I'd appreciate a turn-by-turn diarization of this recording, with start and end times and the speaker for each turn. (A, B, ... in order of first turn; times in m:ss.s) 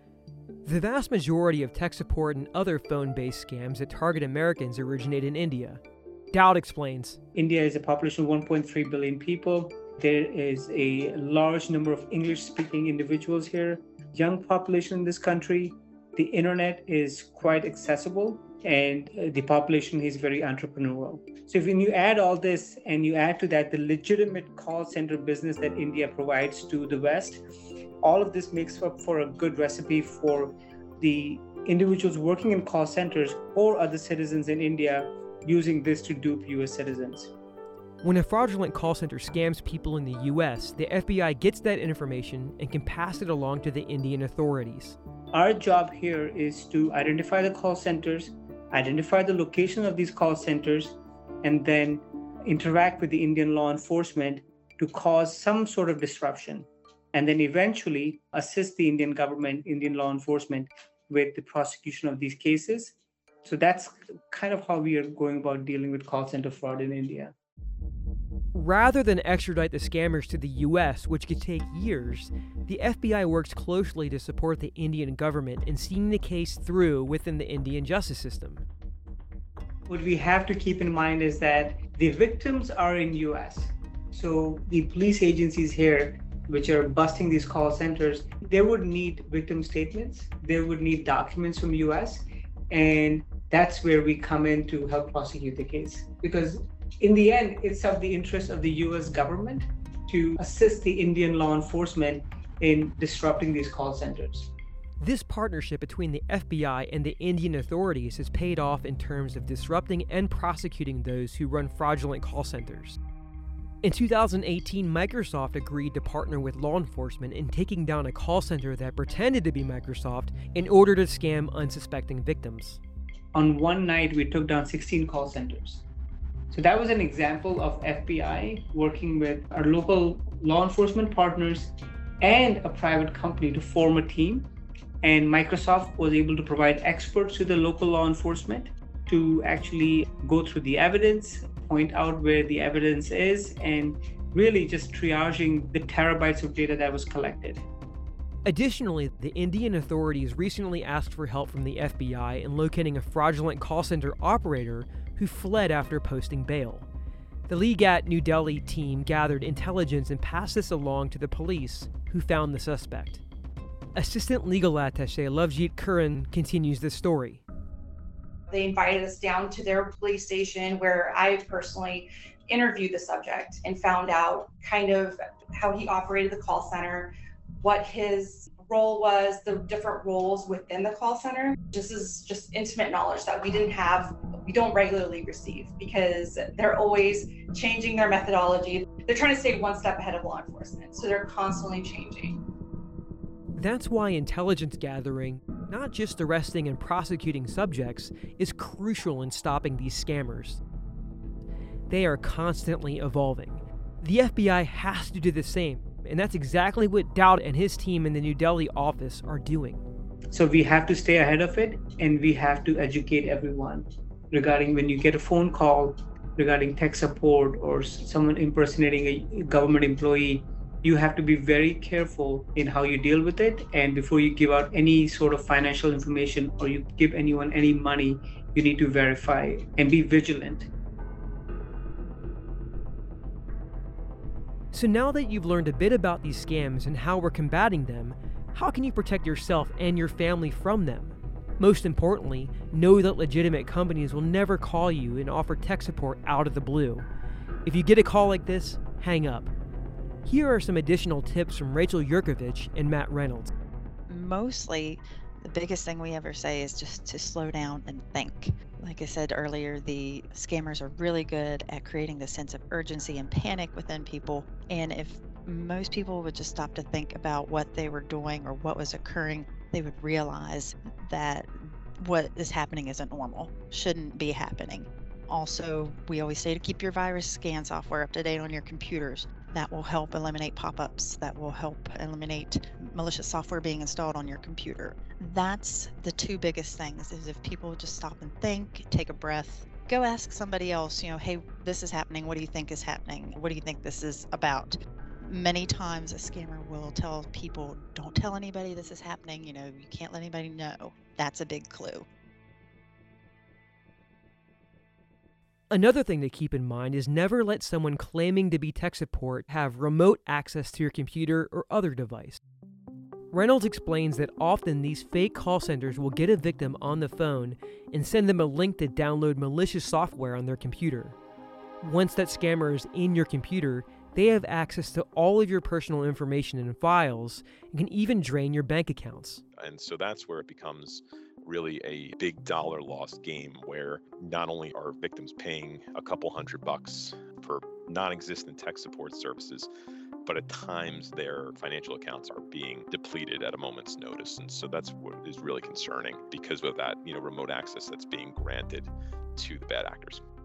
0:00.6-0:05.8 A
0:06.3-0:07.2 A
0:07.4-0:27.4 B
0:28.0-0:37.3 B
0:38.0-0:45.0 A
0:45.3-1:07.4 B
1:08.5-1:18.6 A
1:19.9-1:44.5 B
1:45.0-1:53.0 A
1:53.8-2:02.8 A
2:03.3-2:05.8 B
2:06.5-2:14.5 B
2:15.0-2:27.6 B
2:28.4-2:36.9 A
2:37.5-2:43.2 A
2:44.0-2:47.4 A
2:48.5-3:12.4 C
3:13.6-3:20.6 A
3:21.9-3:29.8 A
3:30.3-3:50.7 B
3:54.7-4:07.1 A
4:07.7-4:09.5 A
4:10.2-4:13.5 A
4:14.1-4:31.5 D
4:32.0-5:02.1 D
5:05.7-5:12.4 A
5:13.3-5:21.2 A
5:21.8-5:29.4 A
5:29.6-5:39.7 E
5:40.2-5:50.2 E